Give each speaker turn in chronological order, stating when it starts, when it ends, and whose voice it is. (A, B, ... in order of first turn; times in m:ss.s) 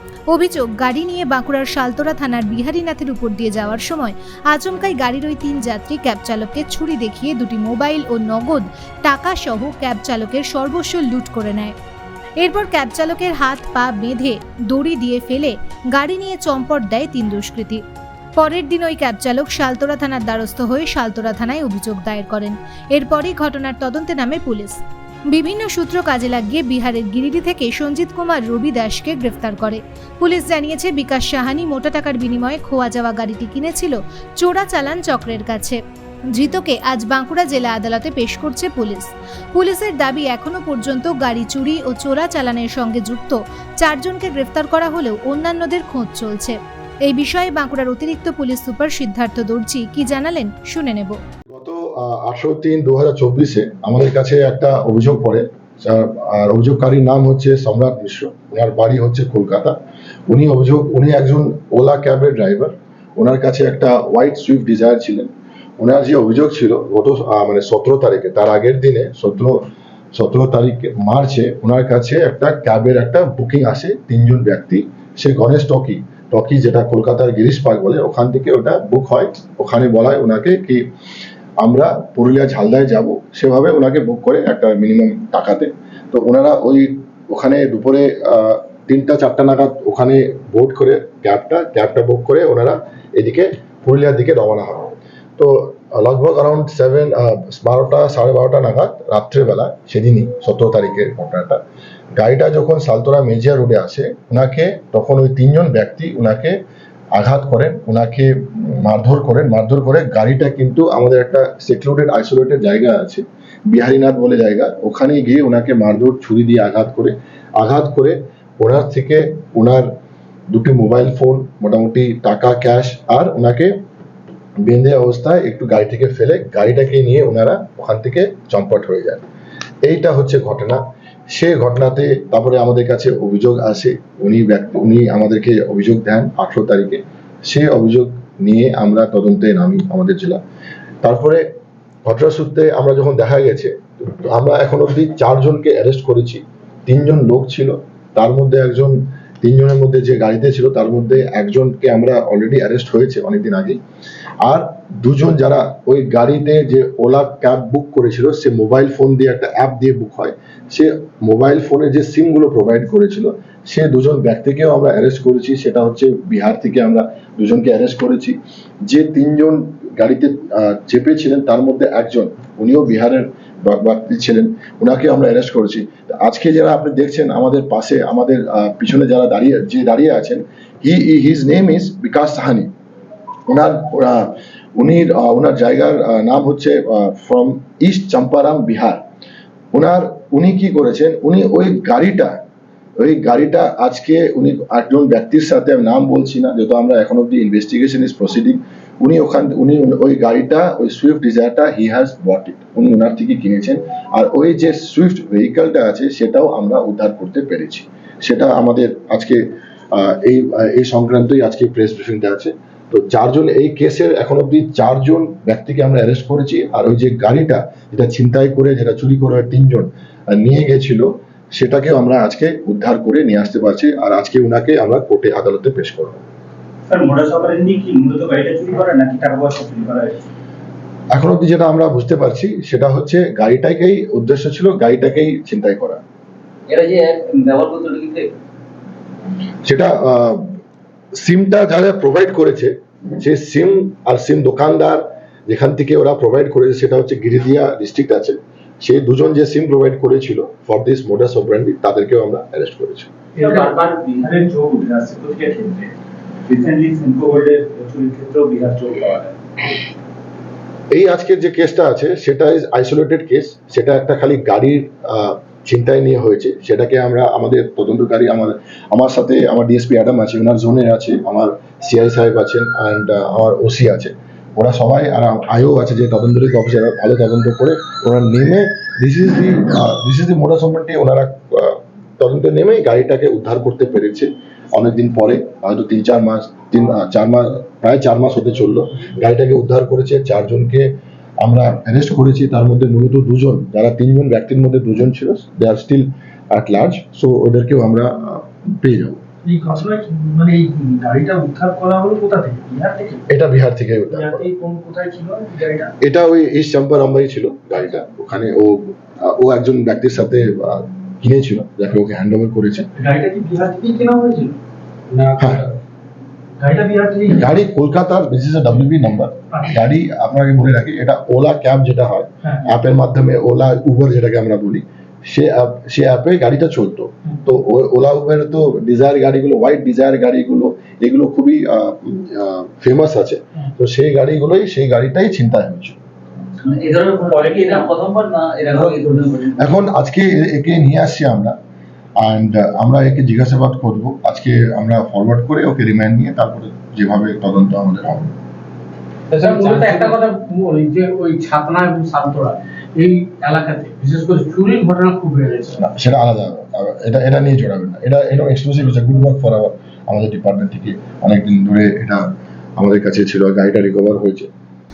0:00.3-0:11.7 A
0:12.4-0:17.8 A
0:18.4-0:24.8 A
0:25.3-0:35.8 A
0:36.3-0:51.2 A
0:51.5-0:59.8 B
1:00.3-1:20.8 B
1:21.6-1:41.6 B
1:42.2-1:46.6 B
1:47.1-1:59.9 B
2:00.5-2:03.8 B
2:04.6-2:09.2 B
2:09.8-2:20.4 B
2:21.0-2:21.4 B
2:22.1-2:33.8 B
2:34.4-3:02.7 B
3:03.5-3:09.0 B
3:09.7-3:12.4 B
3:13.0-3:46.2 B
3:46.9-3:50.2 C
3:51.1-3:56.0 B
3:56.7-3:58.3 D
3:59.6-4:00.6 B
4:01.2-4:13.1 B
4:13.4-4:15.9 C
4:13.5-4:14.3 D
4:16.5-4:19.7 C
4:20.9-4:59.2 B
4:59.4-5:03.3 E
5:03.3-5:04.5 B
5:04.1-5:05.9 E
5:06.0-5:12.9 B
5:13.0-5:14.6 E
5:15.1-5:15.7 F
5:15.4-5:15.6 B
5:16.6-5:17.4 E
5:17.3-5:36.0 B
5:36.6-5:39.8 D
5:39.6-5:41.6 B
5:42.2-5:48.3 B
5:49.3-5:55.8 F
5:55.8-6:02.2 B
6:02.8-6:04.5 B